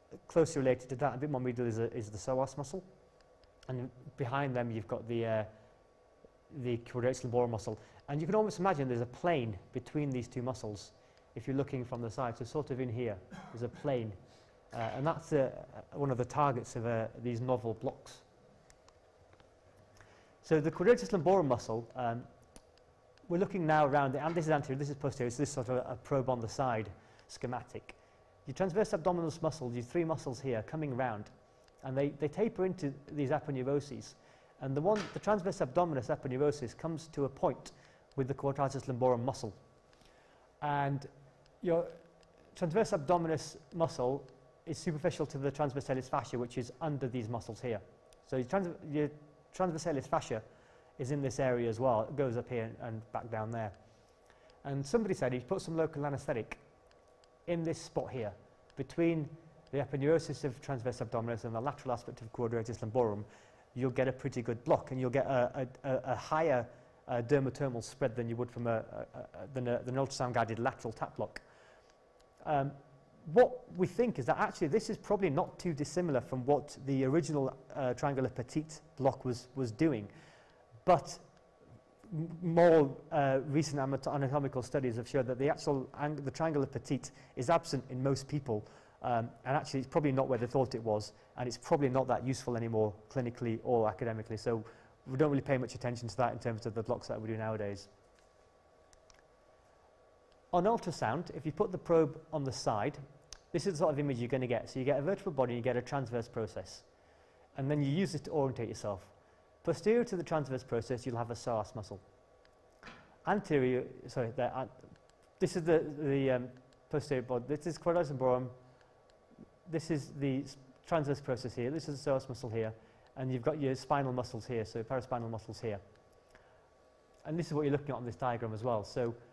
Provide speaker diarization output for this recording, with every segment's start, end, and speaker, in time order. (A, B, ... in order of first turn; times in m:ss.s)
0:00.3-0:02.9 A
0:03.7-0:05.5 A
0:06.5-0:14.2 A
0:14.7-0:18.2 A
0:20.4-0:22.3 A
0:23.3-0:31.3 A
0:31.8-0:39.6 A
0:40.6-0:41.1 A
0:41.6-0:42.0 A
0:42.6-0:50.4 A
0:51.0-0:53.8 A
0:54.6-0:56.6 A
0:57.5-1:11.4 A
1:12.4-1:20.1 A
1:20.8-1:21.3 A
1:22.1-1:37.9 A
1:40.5-1:46.8 A
1:47.6-1:52.0 A
1:53.2-1:58.6 A
1:59.7-2:05.8 A
2:07.2-2:09.2 A